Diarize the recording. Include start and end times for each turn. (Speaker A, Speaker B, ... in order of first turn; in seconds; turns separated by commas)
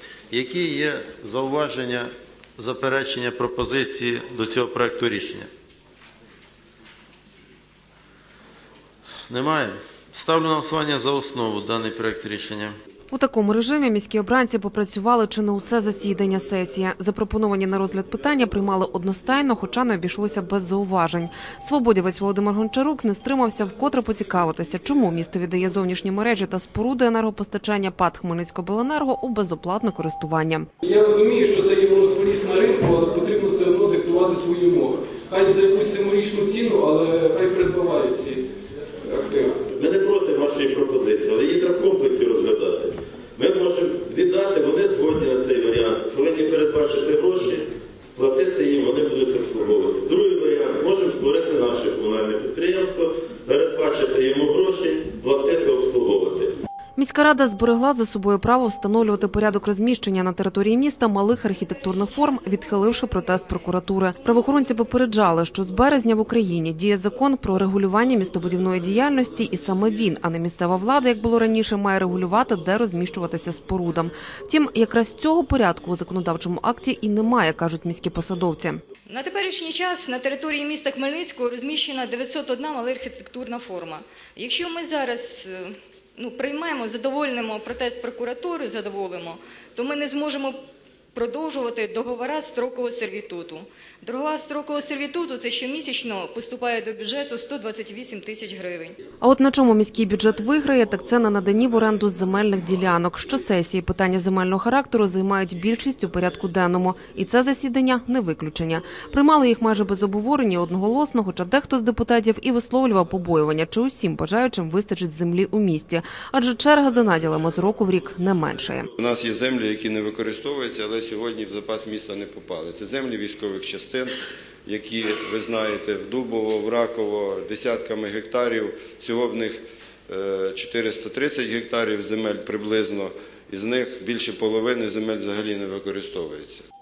Speaker A: 0.3-5.5, Speaker A: 9.3-12.7, Speaker B: 13.1-30.7, Speaker C: 30.8-38.5, Speaker C: 39.0-39.6, Speaker A: 39.7-56.5, Speaker B: 57.0-78.8, Speaker D: 79.1-90.6, Speaker D: 91.1-98.9, Speaker B: 99.2-118.9, Speaker E: 119.0-136.6